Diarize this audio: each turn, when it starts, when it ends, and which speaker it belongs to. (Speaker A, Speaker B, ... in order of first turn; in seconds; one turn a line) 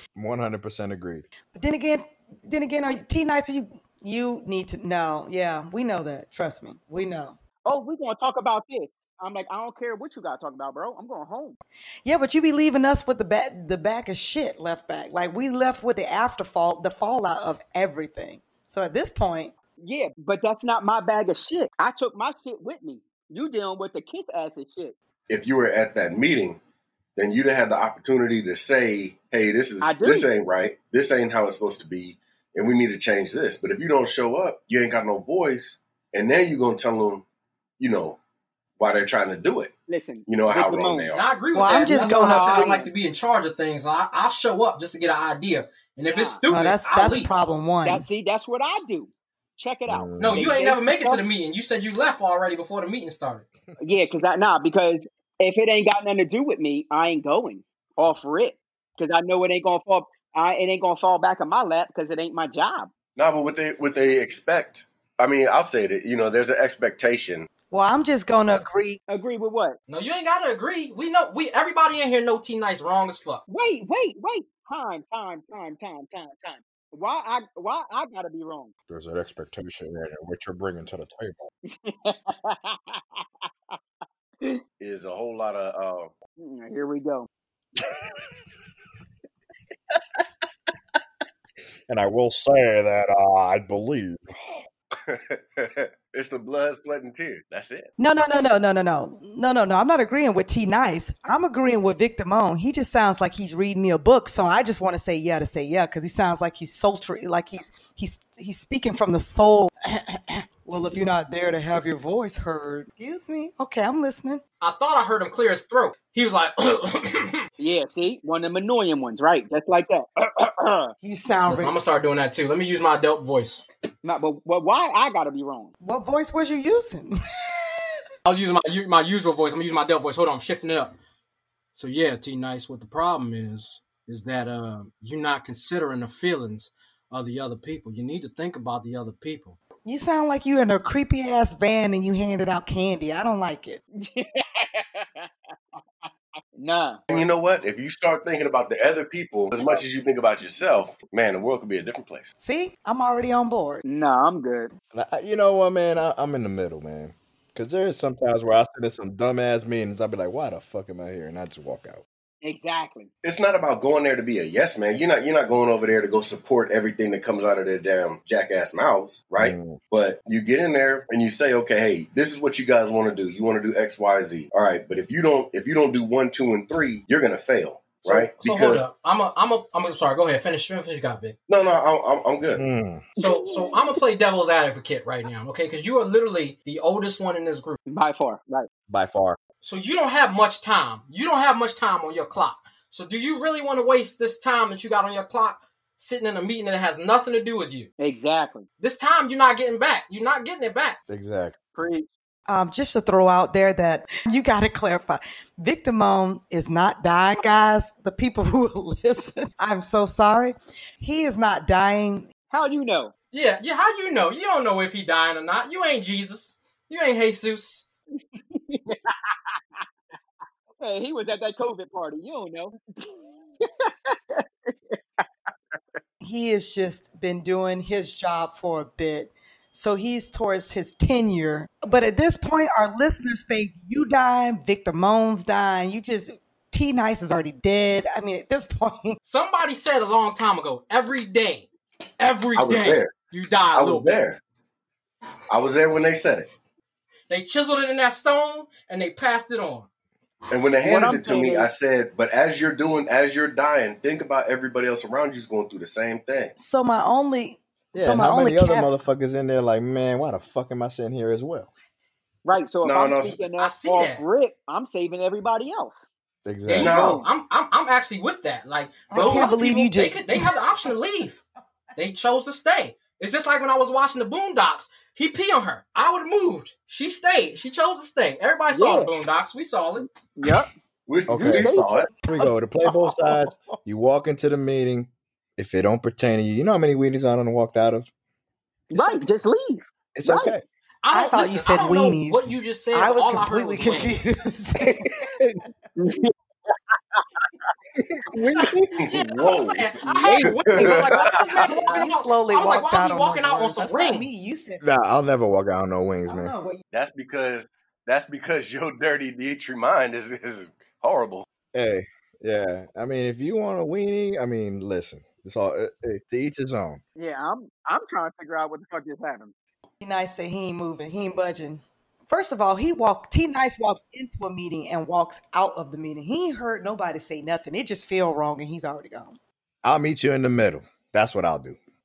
Speaker A: 0.1-1.2
Speaker B: 1.5-7.4
Speaker C: 7.6-11.6
Speaker B: 12.1-19.5
Speaker C: 19.8-24.9
Speaker D: 25.3-26.6
Speaker D: 27.1-37.2
Speaker C: 29.8-30.3
Speaker D: 37.8-38.2
Speaker D: 38.8-39.7
Speaker C: 39.9-41.1
Speaker D: 40.3-41.2
Speaker E: 41.1-47.3
Speaker B: 41.5-42.8
Speaker C: 41.9-42.9
Speaker C: 46.1-46.4
Speaker B: 46.5-48.0
Speaker C: 47.8-51.2
Speaker A: 49.9-50.5
Speaker E: 50.2-53.4
Speaker C: 53.8-62.9
Speaker D: 63.1-67.5
Speaker B: 67.7-69.0
Speaker C: 69.1-69.8
Speaker E: 69.9-73.4
Speaker C: 73.5-78.7
Speaker A: 78.9-81.5
Speaker C: 81.8-83.2
Speaker D: 84.8-86.1
Speaker C: 86.4-87.3
Speaker A: 91.9-94.3
Speaker D: 95.1-97.9
Speaker B: 98.0-114.4
Speaker E: 114.6-117.4
Speaker C: 117.6-120.9
Speaker B: 121.0-121.7
Speaker E: 121.5-123.6
Speaker C: 124.0-125.7
Speaker B: 125.8-127.8
Speaker E: 128.2-130.9
Speaker E: 131.7-139.6
Speaker B: 139.8-143.8
Speaker C: 144.0-145.3
Speaker C: 146.0-147.0
Speaker D: 147.1-152.3
Speaker B: 152.4-153.8
Speaker C: 153.8-154.7
Speaker A: 154.9-162.0
Speaker C: 162.4-163.1
Speaker D: 163.2-178.8
Speaker A: 169.4-169.8
Speaker E: 178.0-181.3
Speaker D: 181.5-182.6
Speaker A: 182.5-183.0
Speaker E: 183.2-187.8
Speaker C: 183.2-183.8
Speaker C: 187.9-188.7
Speaker A: 188.9-189.4
Speaker E: 189.6-197.9
Speaker C: 198.0-198.7
Speaker E: 198.8-201.0
Speaker A: 201.1-201.6
Speaker C: 201.7-202.1
Speaker B: 202.5-212.3
Speaker C: 212.5-213.1
Speaker E: 213.3-217.9
Speaker C: 218.5-219.8
Speaker C: 220.8-225.2
Speaker B: 226.2-239.2
Speaker E: 239.2-241.7
Speaker E: 242.2-244.2
Speaker D: 242.6-243.1
Speaker D: 243.7-244.4
Speaker D: 245.5-246.5
Speaker E: 247.3-249.9
Speaker D: 250.5-256.5
Speaker C: 250.8-251.7
Speaker B: 256.6-258.9
Speaker A: 257.9-261.7
Speaker C: 262.4-266.1
Speaker D: 262.8-263.4
Speaker E: 263.6-264.2
Speaker A: 266.4-267.1
Speaker E: 266.7-271.4
Speaker D: 266.8-267.2
Speaker C: 266.8-267.3
Speaker B: 269.1-270.6
Speaker C: 269.1-269.5
Speaker E: 271.9-280.1
Speaker C: 278.7-279.1
Speaker C: 280.3-280.7
Speaker D: 281.1-282.1
Speaker A: 281.3-281.7
Speaker C: 281.3-282.1
Speaker B: 282.1-283.5
Speaker A: 282.3-288.1
Speaker C: 288.9-290.5
Speaker B: 288.9-289.2
Speaker A: 290.1-290.6
Speaker E: 291.0-294.3
Speaker B: 291.1-295.3
Speaker A: 295.0-295.6
Speaker C: 296.0-296.3
Speaker A: 297.9-298.9
Speaker E: 298.5-304.4
Speaker D: 299.0-301.2
Speaker C: 300.2-300.5
Speaker B: 300.8-304.8
Speaker A: 304.8-306.5
Speaker B: 306.3-306.8
Speaker D: 306.9-311.5
Speaker A: 311.7-317.0
Speaker C: 317.1-319.5
Speaker B: 320.0-329.3
Speaker A: 329.8-331.8